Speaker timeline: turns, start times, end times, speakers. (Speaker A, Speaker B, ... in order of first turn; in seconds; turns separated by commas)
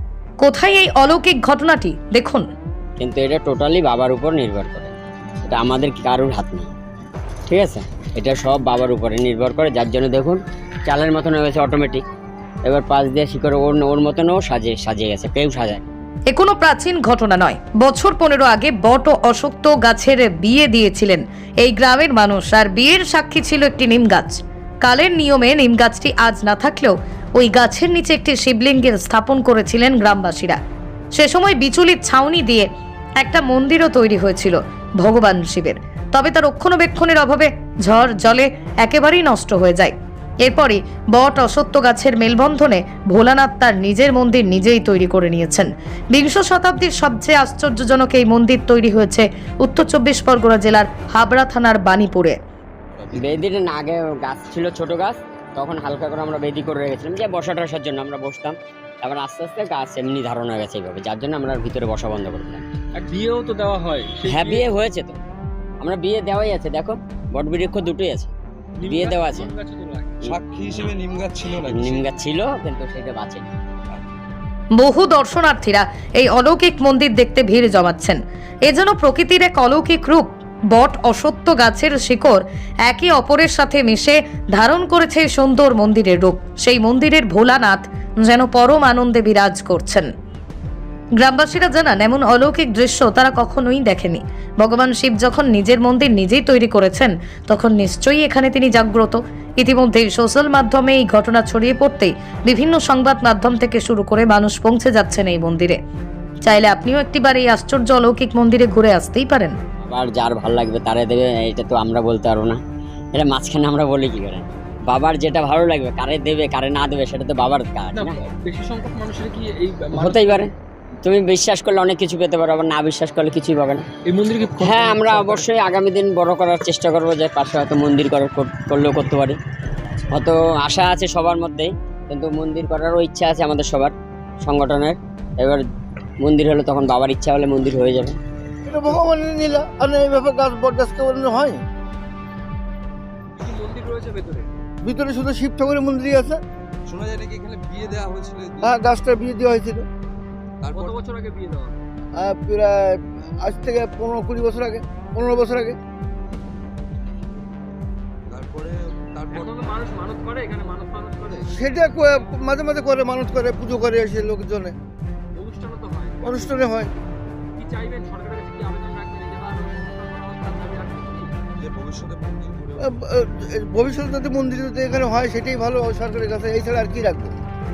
Speaker A: 0.4-2.5, Speaker B: 3.0-6.7, Speaker B: 7.5-12.0, Speaker B: 12.6-15.8, Speaker A: 16.3-30.6, Speaker A: 31.1-32.7, Speaker A: 33.2-52.4, Speaker C: 52.9-53.5, Speaker B: 53.2-62.6, Speaker D: 63.0-64.7, Speaker B: 64.3-65.2, Speaker B: 65.8-68.3, Speaker D: 68.8-70.2, Speaker B: 68.8-69.5, Speaker C: 70.2-72.1, Speaker B: 71.7-73.5, Speaker A: 74.8-90.1, Speaker A: 91.2-105.8, Speaker A: 106.4-109.5, Speaker B: 109.8-112.6, Speaker B: 113.1-118.2, Speaker D: 117.9-120.5, Speaker B: 119.9-120.5, Speaker B: 121.0-123.8, Speaker D: 124.1-125.5, Speaker B: 124.6-129.4, Speaker B: 130.1-135.6, Speaker B: 136.2-138.2, Speaker E: 138.7-141.6, Speaker D: 143.4-144.5, Speaker E: 144.8-146.4, Speaker C: 146.9-149.1, Speaker E: 148.6-149.9, Speaker C: 150.6-151.0, Speaker D: 150.7-151.8, Speaker E: 152.2-155.8, Speaker C: 158.3-159.5, Speaker D: 159.3-162.3, Speaker E: 161.4-164.8, Speaker D: 165.4-166.6, Speaker E: 166.2-166.9, Speaker D: 167.6-171.3, Speaker C: 171.6-173.1, Speaker E: 172.8-177.3